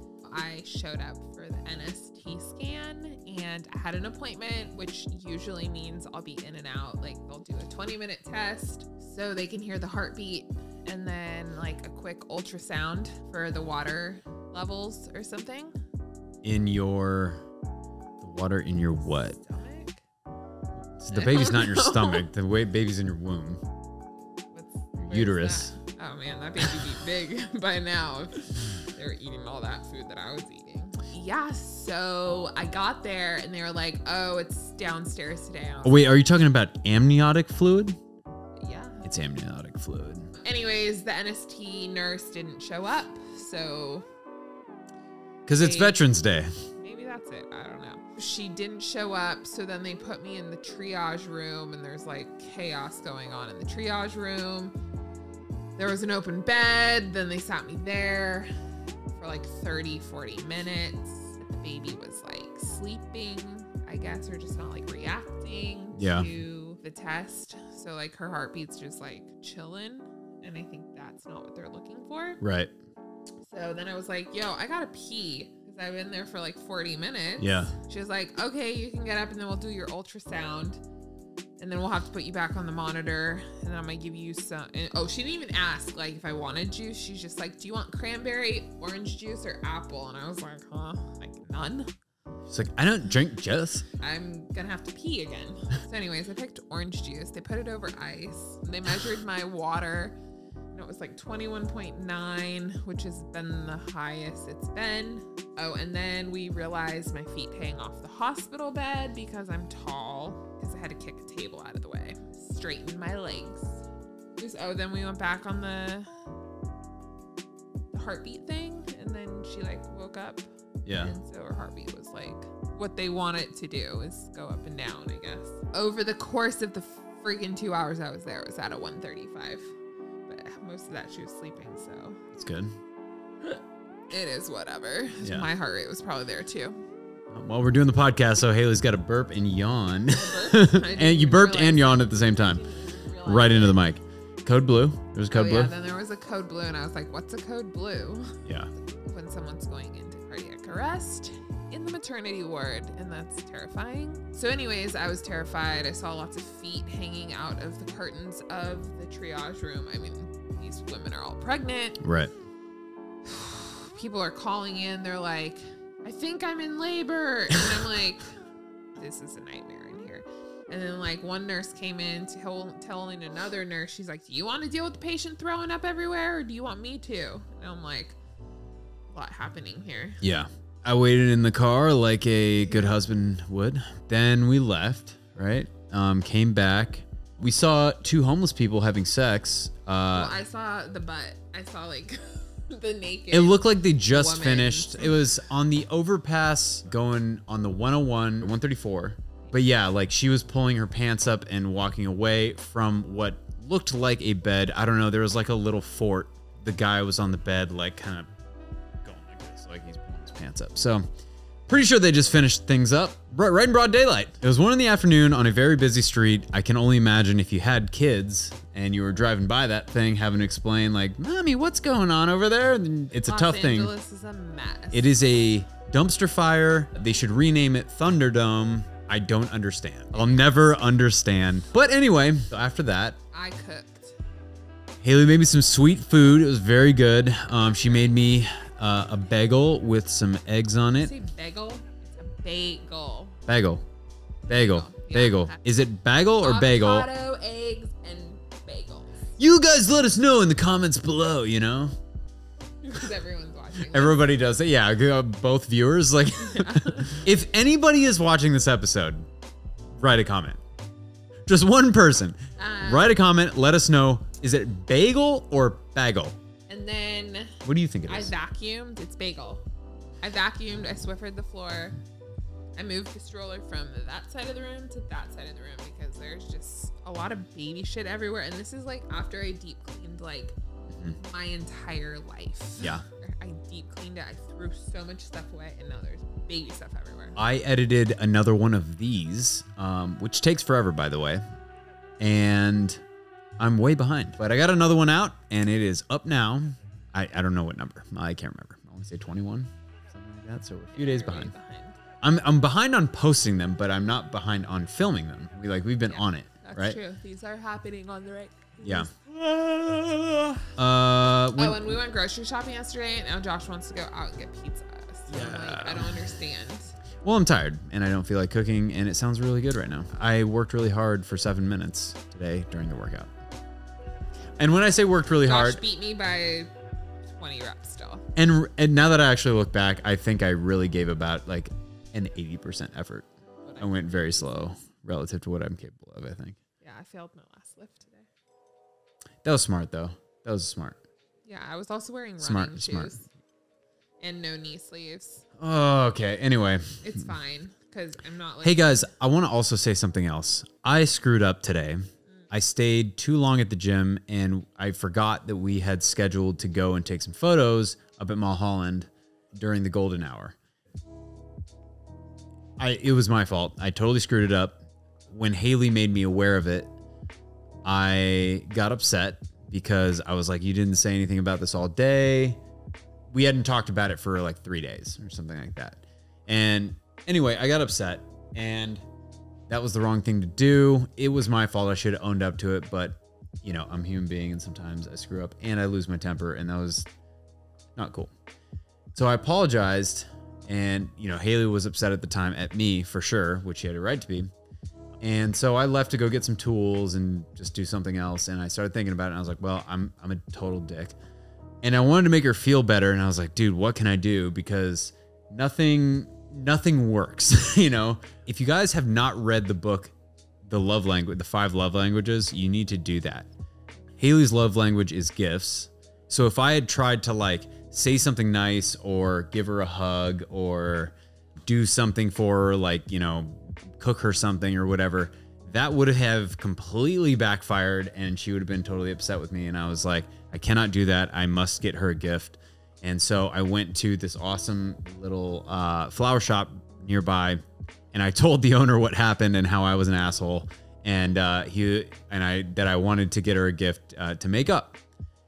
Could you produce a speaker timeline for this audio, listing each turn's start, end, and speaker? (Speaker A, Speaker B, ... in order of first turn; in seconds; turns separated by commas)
Speaker A: 0.2-15.7, Speaker B: 16.4-17.4, Speaker B: 18.2-19.4, Speaker A: 19.1-20.0, Speaker B: 21.0-23.6, Speaker A: 21.1-22.3, Speaker A: 24.5-36.2, Speaker B: 25.1-25.7, Speaker B: 35.8-38.0, Speaker A: 38.6-39.0, Speaker B: 39.0-40.3, Speaker A: 40.4-44.0, Speaker B: 45.5-46.5, Speaker A: 45.6-46.0, Speaker A: 46.8-54.7, Speaker A: 55.8-58.5, Speaker A: 59.1-72.4, Speaker B: 66.0-66.3, Speaker B: 72.4-72.7, Speaker A: 73.4-80.8, Speaker B: 77.4-77.7, Speaker A: 81.6-91.9, Speaker B: 92.5-93.8, Speaker A: 94.0-100.2, Speaker A: 100.7-113.8, Speaker A: 114.4-116.1, Speaker A: 117.9-120.4, Speaker B: 120.8-121.1, Speaker A: 121.0-129.7, Speaker A: 130.3-132.2, Speaker B: 132.3-132.7, Speaker A: 133.4-136.8, Speaker B: 135.2-135.5, Speaker B: 137.3-142.7, Speaker A: 140.1-143.8, Speaker B: 143.2-145.7, Speaker A: 145.3-148.4, Speaker B: 148.4-148.7, Speaker A: 149.0-162.0, Speaker B: 162.0-162.3, Speaker A: 163.2-168.3, Speaker A: 168.9-178.2, Speaker A: 179.1-180.2, Speaker B: 180.2-190.4, Speaker A: 190.1-195.3, Speaker B: 193.3-208.3, Speaker B: 209.0-211.0, Speaker B: 211.7-223.9, Speaker A: 223.1-225.1, Speaker B: 224.9-233.2, Speaker A: 230.2-230.4, Speaker A: 233.3-234.2, Speaker B: 235.0-241.1, Speaker A: 241.0-243.3, Speaker B: 243.5-243.8, Speaker A: 244.5-245.6, Speaker B: 244.5-247.1, Speaker A: 246.4-249.3, Speaker B: 249.4-251.9, Speaker A: 252.8-254.2, Speaker B: 253.9-259.3, Speaker A: 256.4-257.2, Speaker B: 260.0-260.6, Speaker B: 261.5-266.4, Speaker A: 262.6-263.2, Speaker A: 266.7-269.6, Speaker B: 267.6-268.3, Speaker A: 270.2-272.0, Speaker A: 272.8-280.6, Speaker B: 280.9-281.2, Speaker A: 281.2-287.4, Speaker B: 287.4-291.4, Speaker B: 292.2-293.0, Speaker B: 293.6-301.5, Speaker A: 300.9-302.0, Speaker B: 302.2-307.0, Speaker A: 306.1-309.3, Speaker B: 308.8-311.9, Speaker A: 311.5-316.9, Speaker B: 315.3-316.1, Speaker B: 317.2-323.3, Speaker B: 324.6-325.8, Speaker A: 325.4-328.2, Speaker B: 328.4-333.3, Speaker A: 333.6-334.4, Speaker B: 333.8-336.6, Speaker A: 336.8-338.3, Speaker B: 339.4-341.0, Speaker A: 341.4-343.3, Speaker B: 342.4-343.1, Speaker A: 344.2-345.4, Speaker B: 345.6-347.0, Speaker A: 347.0-349.1, Speaker B: 348.6-360.6, Speaker B: 362.8-364.8, Speaker B: 365.3-366.9, Speaker B: 367.8-372.6, Speaker B: 373.3-379.0, Speaker B: 379.7-387.1, Speaker B: 387.9-388.3, Speaker B: 389.1-394.5, Speaker B: 395.2-401.1, Speaker B: 401.8-410.1, Speaker B: 410.6-413.5, Speaker B: 414.2-421.1, Speaker B: 421.6-437.6, Speaker B: 438.1-445.0